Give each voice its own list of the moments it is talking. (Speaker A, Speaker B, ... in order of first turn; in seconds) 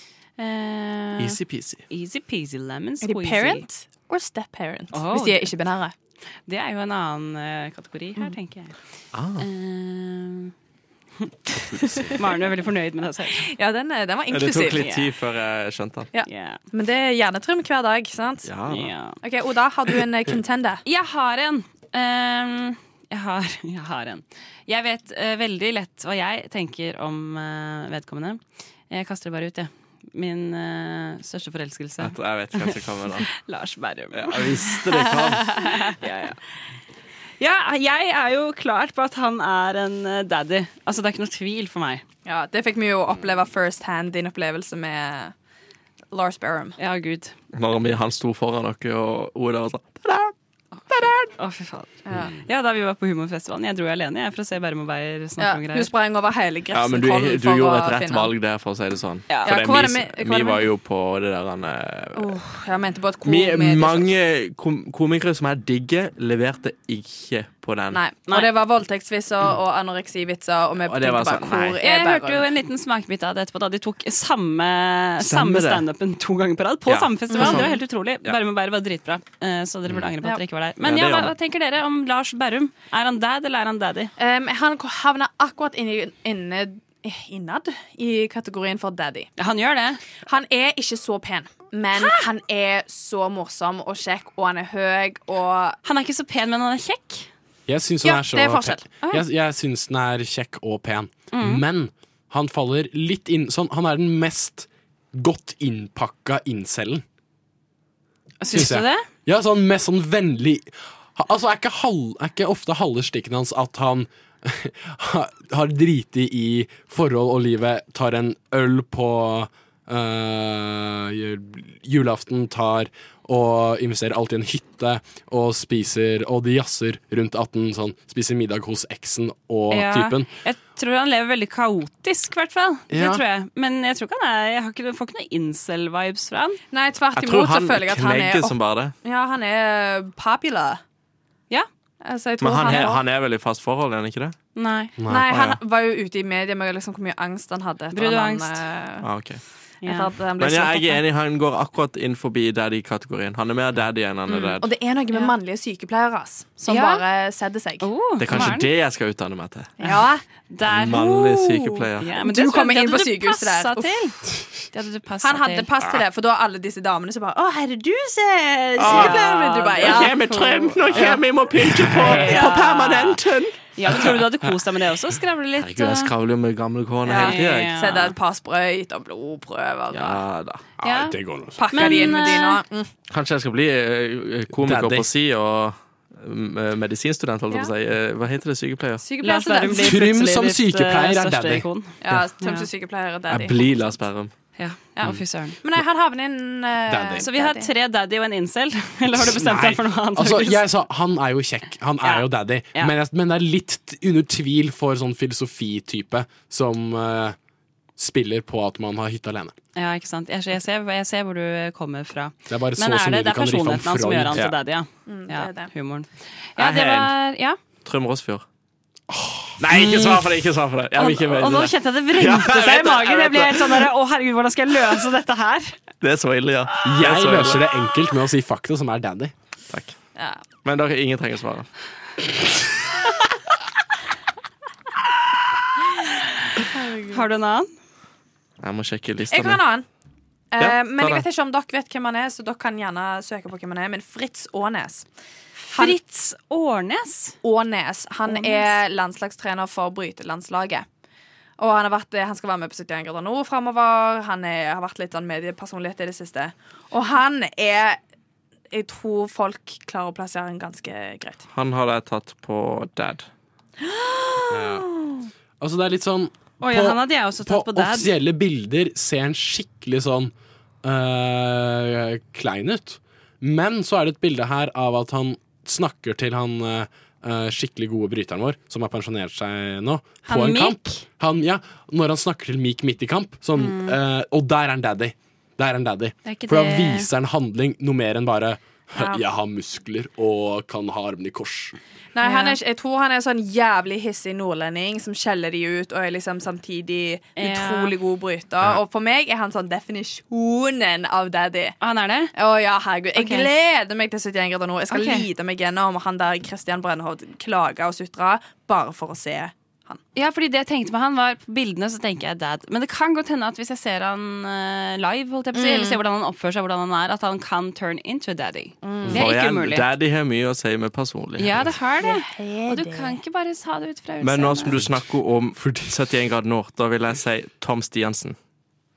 Speaker A: 0.4-1.4, 1.9-3.7, 4.9-5.5, 6.5-8.8, 9.4-10.5, 12.2-13.5, 14.8-15.1, 16.3-16.6, 18.7-19.2, 20.9-32.8, 33.3-34.8, 35.7-36.4, 37.4-42.0, 46.8-47.3, 51.3-51.9, 52.4-55.9, 71.8-84.1, 89.4-90.0, 95.8-97.3, 101.3-101.6, 108.4-109.1, 129.7-136.6, 144.6-144.9, 147.9-148.6, 149.8-150.1, 154.3-154.6, 156.6-157.0, 157.8-158.7, 159.8-161.0, 162.0-164.2, 164.7-165.7, 168.8-170.8, 172.0-173.2, 173.7-176.1, 177.1-178.2, 180.8-181.2, 181.7-182.6, 189.2-192.7, 194.6-195.6, 197.2-200.6, 202.0-202.9, 209.8-217.6, 221.0-225.8, 237.1-237.7, 245.7-247.4, 248.3-248.8, 266.6-268.1, 280.3-281.0, 283.6-283.9, 286.3-287.1, 292.2-292.6, 297.4-297.9, 301.8-302.3, 303.2-303.5, 304.9-305.3, 310.1-319.9, 321.4-324.8
Speaker B: 1.2-1.8, 9.1-9.5, 11.8-12.1, 14.3-16.1, 18.4-18.9, 32.0-33.3, 34.1-35.6, 47.5-50.3, 50.9-51.2, 56.7-62.3, 63.2-68.0, 70.8-71.8, 75.2-75.8, 76.9-78.4, 80.8-81.3, 137.2-138.9, 142.4-144.3, 149.0-149.4, 150.4-154.7, 158.2-159.7, 160.7-162.1, 168.8-169.2, 169.8-174.0, 175.6-177.8, 179.9-180.6, 183.1-189.0, 193.3-194.3, 216.6-217.1, 217.8-218.4, 219.6-223.9, 226.0-227.6, 229.7-229.9, 230.6-231.7, 238.6-239.6, 240.6-241.2, 261.5-263.3, 319.0-321.6, 324.2-328.4
Speaker C: 3.0-5.9, 11.9-12.1, 13.3-14.9, 16.1-18.5, 19.2-20.8, 35.3-35.9, 42.2-45.3, 46.1-46.8, 52.1-52.4, 55.4-58.3, 59.4-60.7, 62.1-64.1, 67.9-72.5, 77.3-77.8, 84.2-89.3, 90.3-95.8, 98.0-98.9, 136.7-140.8, 142.0-143.0, 145.1-149.1, 149.8-151.0, 154.6-157.9, 159.8-160.2, 160.9-163.9, 165.2-171.2, 172.2-172.5, 177.1-180.2, 181.6-182.9, 189.0-190.0, 192.0-193.6, 195.0-197.7, 215.1-215.7, 230.2-230.4, 236.7-237.3, 239.3-239.9, 240.5-245.1, 247.4-250.9, 251.6-258.0, 258.7-261.4, 263.8-265.3, 289.0-289.2, 292.1-301.8, 302.4-310.0, 315.5-316.0, 318.8-319.3, 322.0-323.2
Speaker D: 97.7-107.0, 108.5-130.3, 132.9-133.2, 145.0-145.6, 171.9-172.2, 180.8-182.2, 184.5-185.1, 189.8-192.2, 196.9-197.2, 199.2-207.4, 208.0-209.6, 212.5-214.4, 219.1-220.3, 226.8-229.3, 264.5-264.9, 265.6-291.8, 325.5-326.0